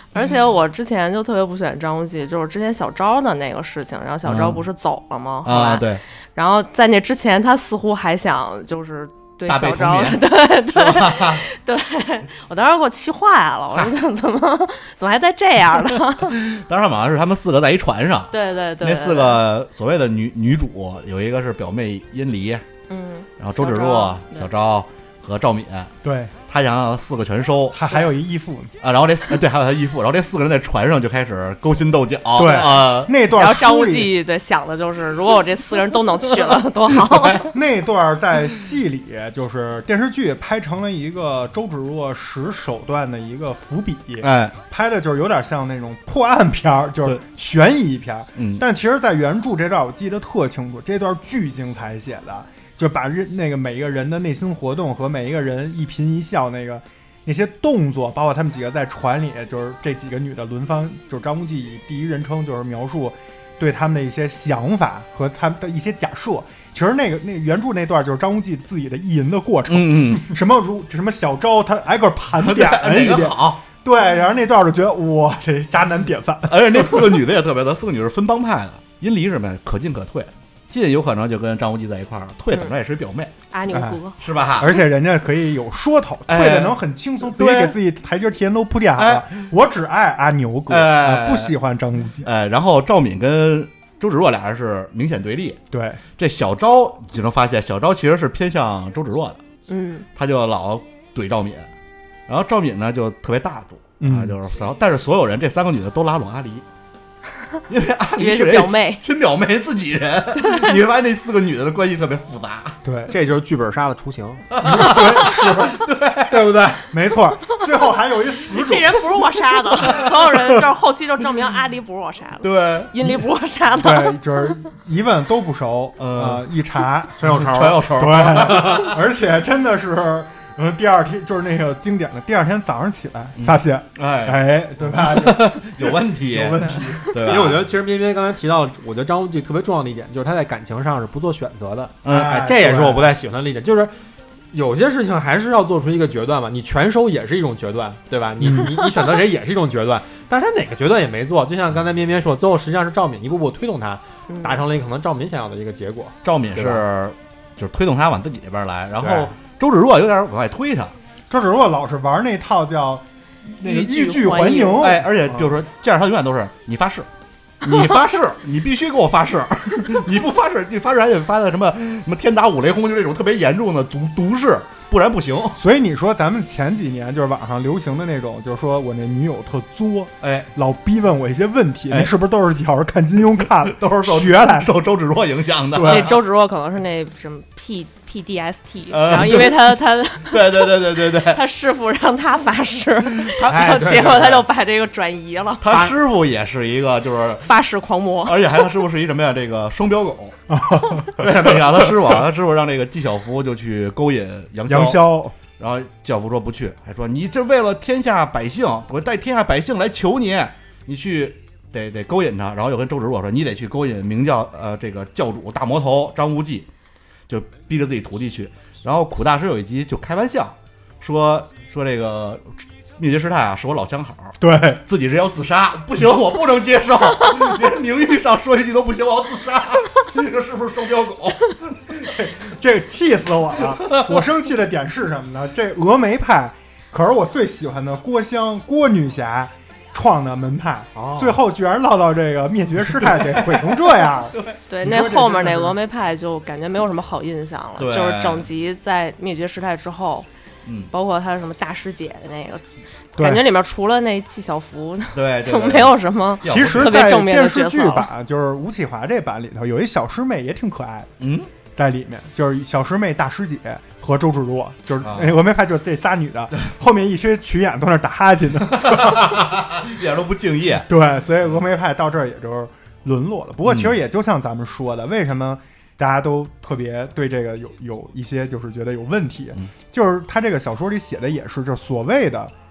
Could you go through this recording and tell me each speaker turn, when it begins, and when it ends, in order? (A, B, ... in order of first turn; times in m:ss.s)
0:00.1-0:16.4 A
0:04.2-0:04.6 B
0:05.4-0:06.0 B
0:09.5-0:11.4 B
0:15.8-0:22.6 B
0:18.3-0:19.4 A
0:22.9-0:24.5 A
0:23.4-0:25.9 B
0:26.0-0:26.3 C
0:26.5-0:28.0 B
0:27.7-0:28.7 C
0:28.8-0:33.1 B
0:32.4-0:34.2 C
0:33.3-0:37.5 A
0:37.5-1:17.2 C
0:44.2-0:44.6 B
0:48.4-0:48.6 B
1:09.7-1:10.3 B
1:12.3-1:13.6 B
1:16.5-1:23.3 B
1:23.5-1:24.2 A
1:23.7-1:24.0 C
1:24.2-1:24.8 B
1:24.6-1:32.3 C
1:26.3-1:27.8 B
1:29.0-1:29.4 B
1:30.7-1:31.6 B
1:32.2-1:35.6 B
1:35.7-1:36.0 C
1:36.2-1:39.4 B
1:39.7-1:40.1 A
1:40.2-1:41.7 B
1:42.3-1:46.7 B
1:44.0-1:44.4 C
1:47.7-1:52.8 B
1:48.1-1:49.0 A
1:52.8-1:53.2 C
1:53.1-1:54.9 D
1:54.5-1:56.6 B
1:54.6-1:55.8 C
1:56.3-1:56.8 D
1:56.8-2:00.6 C
1:58.5-2:04.6 A
2:02.4-2:02.9 B
2:03.8-2:07.3 C
2:06.0-2:06.5 B
2:07.2-2:08.9 D
2:07.3-2:08.9 B
2:07.9-2:17.4 C
2:13.4-2:17.7 B
2:17.1-2:23.9 D
2:22.0-2:22.5 B
2:22.0-2:23.2 C
2:24.5-2:36.8 D
2:34.3-2:34.6 A
2:36.2-2:41.0 B
2:39.0-2:39.3 D
2:41.3-2:45.5 C
2:43.6-2:44.9 A
2:44.7-2:47.1 B
2:47.6-2:55.6 B
2:55.6-3:04.7 C
3:00.2-3:00.5 B
3:01.9-3:02.2 B
3:03.3-3:06.2 B
3:05.8-3:06.0 D
3:05.9-3:15.8 A
3:08.9-3:11.4 B
3:13.2-3:13.9 B
3:13.5-3:14.5 D
3:15.6-3:17.5 B
3:17.4-3:18.4 A
3:18.2-3:20.4 B
3:20.5-3:21.6 C
3:21.0-3:36.7 B
3:24.7-3:25.4 C
3:37.3-3:51.6 B
3:44.4-3:44.8 C
3:51.9-4:05.8 C
3:53.9-3:54.2 B
4:01.0-4:01.4 D
4:03.0-4:04.6 B
4:04.7-4:10.3 A
4:07.8-4:08.5 B
4:10.6-4:10.9 B
4:10.9-4:12.6 A
4:13.2-4:18.1 A
4:13.2-4:13.5 C
4:15.1-4:17.2 B
4:16.4-4:21.1 C
4:21.2-4:21.5 B
4:21.8-4:29.4 C
4:25.0-4:25.4 B
4:28.8-4:30.9 B
4:30.9-4:42.5 C
4:33.6-4:34.0 B